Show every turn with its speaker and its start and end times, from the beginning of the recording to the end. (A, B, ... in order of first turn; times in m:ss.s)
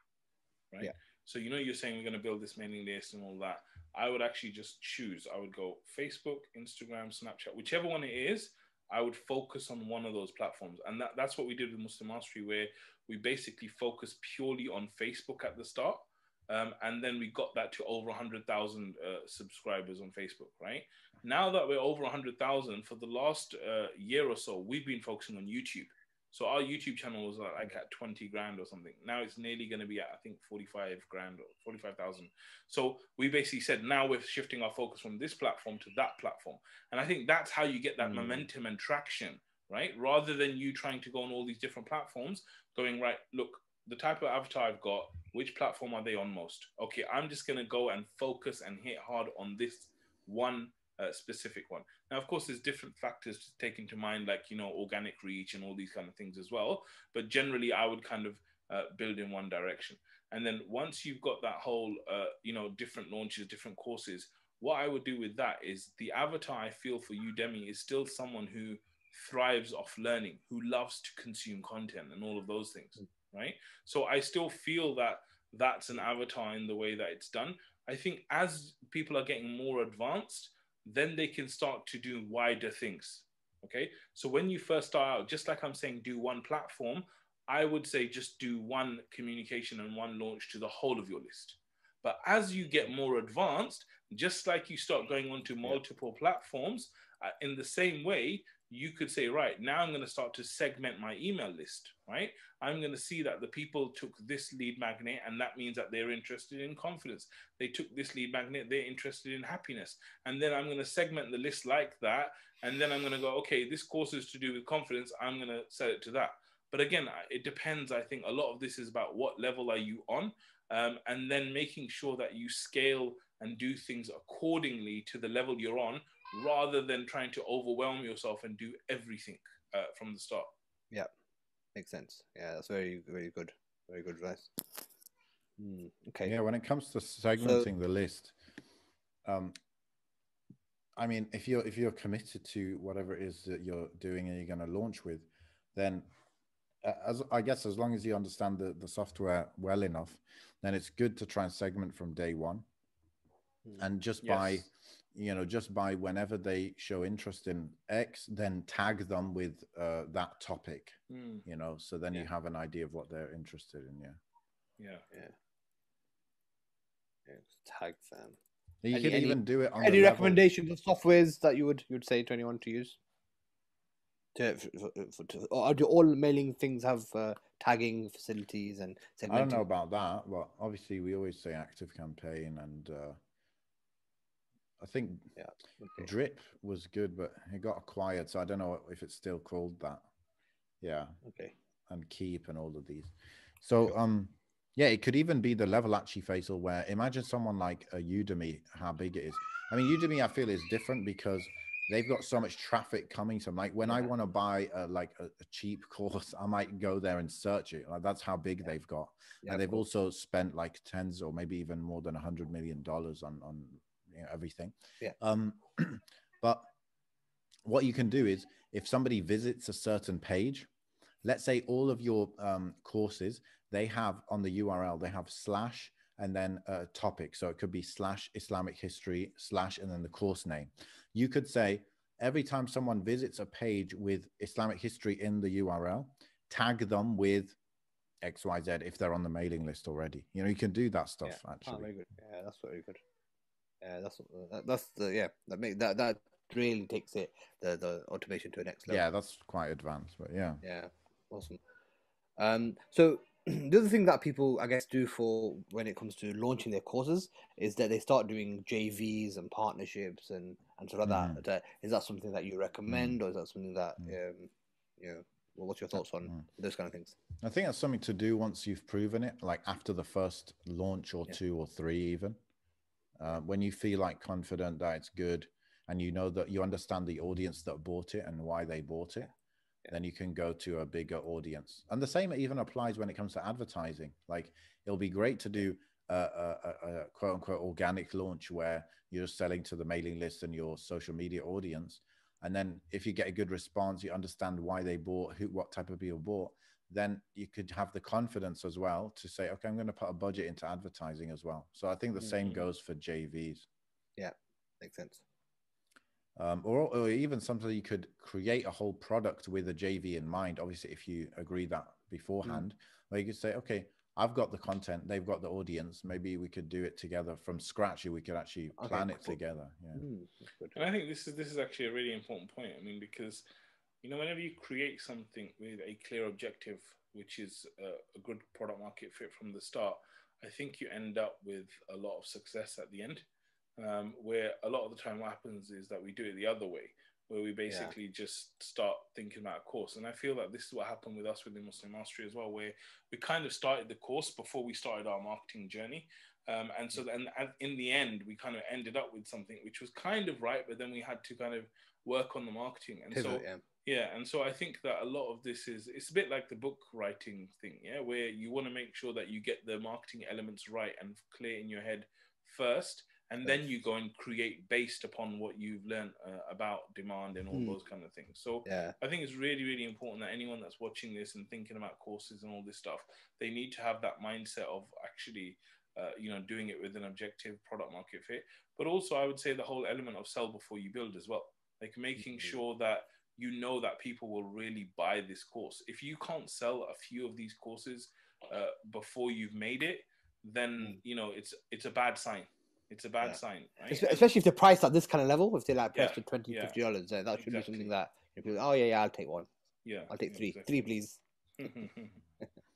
0:00.7-2:10.5 A
0:38.0-0:38.5 B
2:11.8-2:14.8 B
2:15.6-2:16.3 B
2:16.2-2:18.4 C
2:17.4-2:17.7 B
2:19.3-2:19.6 C
2:21.0-2:26.1 C
2:26.8-2:32.6 C
2:33.8-2:44.2 C
2:34.2-2:34.6 A
2:41.1-2:41.4 A
2:44.8-2:45.0 A
2:47.3-2:48.4 B
2:48.8-2:50.4 C
2:48.9-2:53.0 B
2:54.4-2:59.7 B
2:59.3-3:03.2 C
3:04.8-3:05.3 C
3:05.4-3:06.1 B
3:06.0-3:10.0 C
3:10.8-3:11.2 C
3:11.2-3:11.5 B
3:11.9-3:36.7 C
3:29.4-3:29.8 B
3:37.7-3:40.7 C
3:41.2-3:57.6 C
3:58.2-4:01.9 C
4:01.2-4:03.0 B
4:03.8-4:09.0 B
4:08.9-4:10.6 C
4:10.6-4:11.6 B
4:12.4-4:27.2 B
4:21.0-4:21.4 C
4:22.9-4:23.2 C
4:27.4-4:32.4 C
4:33.2-4:39.3 C
4:39.9-5:03.7 C
5:04.2-5:05.2 B
5:06.4-5:20.0 C
5:18.8-5:19.4 B
5:20.0-5:20.9 B
5:20.8-5:23.4 A
5:24.0-5:33.3 A
5:33.8-6:34.2 A
5:37.7-5:38.0 B
5:53.1-5:53.6 B
6:07.5-6:07.8 B
6:08.6-6:09.0 B
6:22.2-6:22.6 B
6:33.2-6:39.5 B
6:36.0-6:36.8 A
6:37.4-6:37.9 A
6:39.8-6:40.8 A
6:40.1-6:41.7 B
6:41.6-6:42.2 A